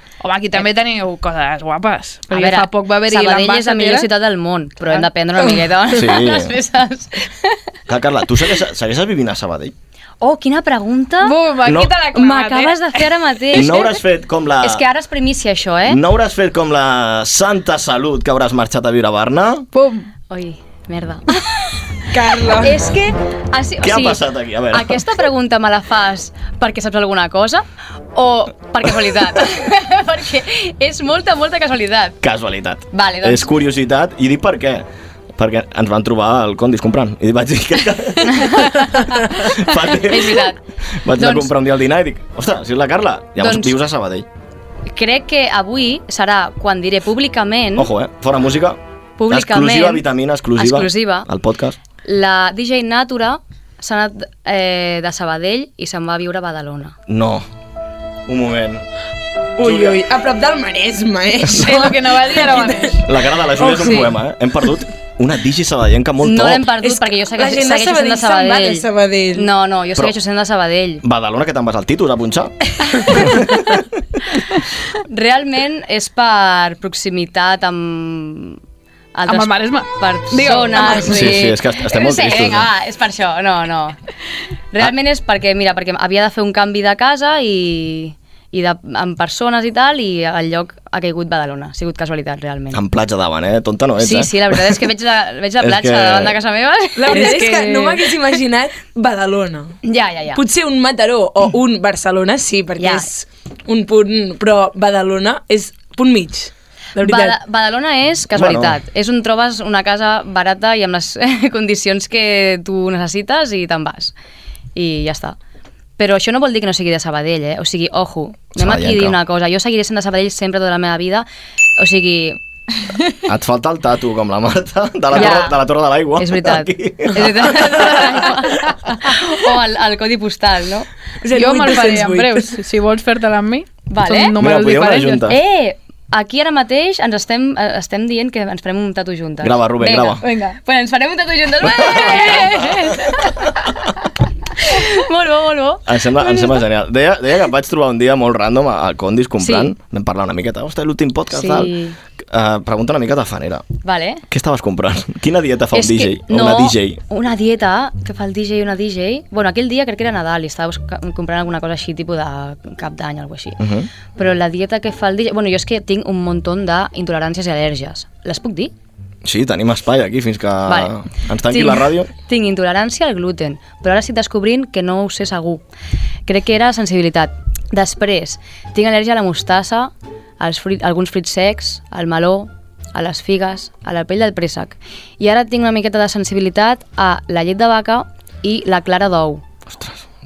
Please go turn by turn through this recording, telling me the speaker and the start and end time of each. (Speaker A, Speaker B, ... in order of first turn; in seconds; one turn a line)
Speaker A: 0.2-4.1
Speaker B: 2.3-7.6
Speaker C: 5.9-6.5
Speaker C: 7.9-9.7
Speaker B: 10.2-11.4
Speaker A: 11.2-13.9
Speaker C: 11.6-11.9
Speaker B: 12.1-13.9
Speaker C: 13.5-14.8
Speaker B: 14.6-16.0
Speaker C: 15.9-19.7
Speaker A: 19.7-20.1
Speaker B: 20.3-21.5
Speaker D: 22.1-22.8
Speaker B: 22.6-24.2
Speaker C: 23.8-25.0
Speaker B: 24.7-32.2
Speaker C: 32.2-34.9
Speaker B: 32.9-33.5
Speaker C: 35.4-44.3
Speaker B: 40.0-40.6
Speaker B: 41.2-41.5
Speaker B: 43.4-43.8
Speaker B: 44.9-47.9
Speaker C: 47.8-51.8
Speaker B: 49.2-50.0
Speaker B: 50.6-51.3
Speaker B: 52.0-57.0
Speaker C: 57.1-57.5
Speaker C: 58.3-58.9
Speaker D: 59.6-63.0
Speaker C: 59.6-60.0
Speaker C: 61.4-61.9
Speaker A: 61.5-63.1
Speaker C: 63.0-66.7
Speaker D: 63.6-64.0
Speaker B: 63.8-64.1
Speaker B: 66.2-71.0
Speaker D: 66.8-69.5
Speaker C: 71.0-73.5
Speaker B: 75.1-78.6
Speaker B: 79.2-84.0
Speaker A: 79.3-81.3
Speaker C: 80.8-82.7
Speaker B: 84.7-92.8
Speaker C: 92.7-94.9
Speaker B: 94.0-98.0
Speaker C: 95.6-96.4
Speaker D: 97.0-99.8
Speaker B: 99.8-100.4
Speaker D: 100.3-107.4
Speaker B: 102.8-103.1
Speaker B: 107.0-114.1
Speaker C: 108.3-108.8
Speaker B: 114.8-115.4
Speaker B: 116.0-121.3
Speaker C: 118.5-119.2
Speaker B: 121.8-122.4
Speaker C: 123.3-128.3
Speaker B: 125.1-125.6
Speaker B: 126.2-130.9
Speaker D: 131.2-132.6
Speaker A: 131.3-135.3
Speaker B: 133.9-134.4
Speaker C: 134.4-135.4
Speaker B: 135.2-143.3
Speaker C: 139.4-140.2
Speaker A: 140.2-140.6
Speaker C: 141.7-143.3
Speaker B: 144.6-146.6
Speaker C: 145.9-151.7
Speaker B: 149.4-149.7
Speaker B: 151.3-152.0
Speaker C: 152.3-153.7
Speaker B: 153.8-154.2
Speaker C: 154.3-157.0
Speaker B: 155.7-163.6
Speaker C: 163.6-163.9
Speaker B: 164.2-168.7
Speaker C: 169.2-172.1
Speaker B: 170.7-170.9
Speaker B: 171.5-175.6
Speaker B: 176.3-189.4
Speaker C: 189.7-190.1